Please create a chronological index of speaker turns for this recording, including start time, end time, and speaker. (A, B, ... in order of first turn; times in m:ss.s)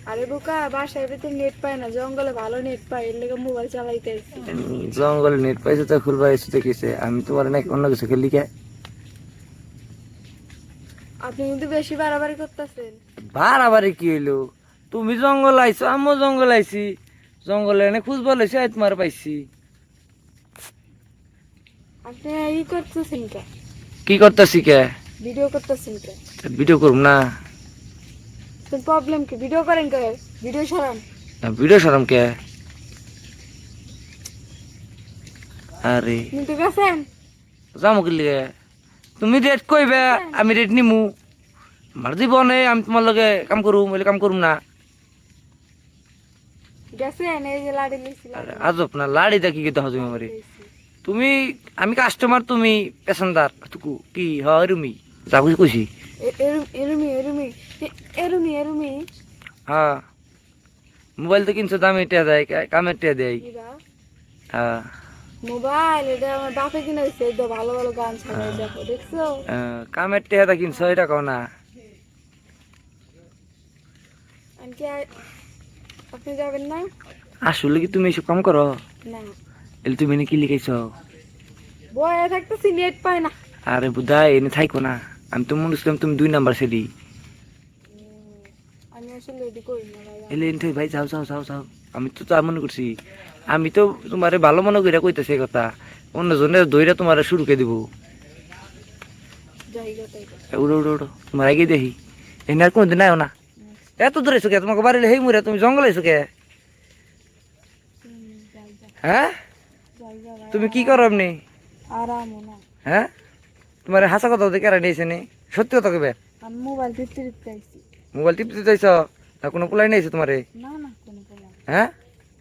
0:00.1-0:04.4 A
0:04.5-0:08.5 B
0:11.2-0:13.0 A
0:13.3-0:14.4 B
0:14.9-0:16.9 B
0:17.4-0:19.4 B
0:22.0-0:23.4 A
0:24.0-0:24.8 B
0:25.2-0:26.2 A
0:26.4-0:27.2 B
0:28.7-0:31.0 A
0:31.4-0:32.2 B
0:35.8-0:36.2 B
0:36.3-0:37.1 A
0:37.8-0:38.5 B
0:39.2-0:41.1 B
0:39.9-0:40.5 A
0:42.0-0:44.6 B
0:47.0-0:48.7 A
0:48.4-0:50.3 B
0:50.0-0:50.7 A
0:51.0-0:55.9 B
0:56.2-0:59.0 A
0:59.7-1:00.0 B
1:01.2-1:03.4 B
1:03.4-1:03.8 A
1:04.5-1:04.8 B
1:05.4-1:09.4 A
1:08.3-1:08.7 B
1:09.5-1:11.4 B
1:10.7-1:11.0 A
1:14.6-1:15.1 A
1:16.1-1:16.9 A
1:17.5-1:18.7 B
1:19.0-1:19.3 A
1:19.8-1:20.8 B
1:21.9-1:23.3 A
1:23.7-1:26.8 B
1:27.9-1:30.6 A
1:30.3-1:32.9 B
1:33.5-1:37.8 B
1:39.7-1:40.4 A
1:40.5-1:41.9 B
1:42.5-1:43.3 B
1:43.6-1:44.0 A
1:44.0-1:46.3 B
1:48.0-1:48.9 A
1:49.0-1:49.3 B
1:50.0-1:51.1 A
1:50.5-1:51.4 B
1:51.9-1:52.6 A
1:53.8-1:56.2 B
1:56.4-1:57.8 A
1:58.1-2:00.4 B
2:00.6-2:01.6 A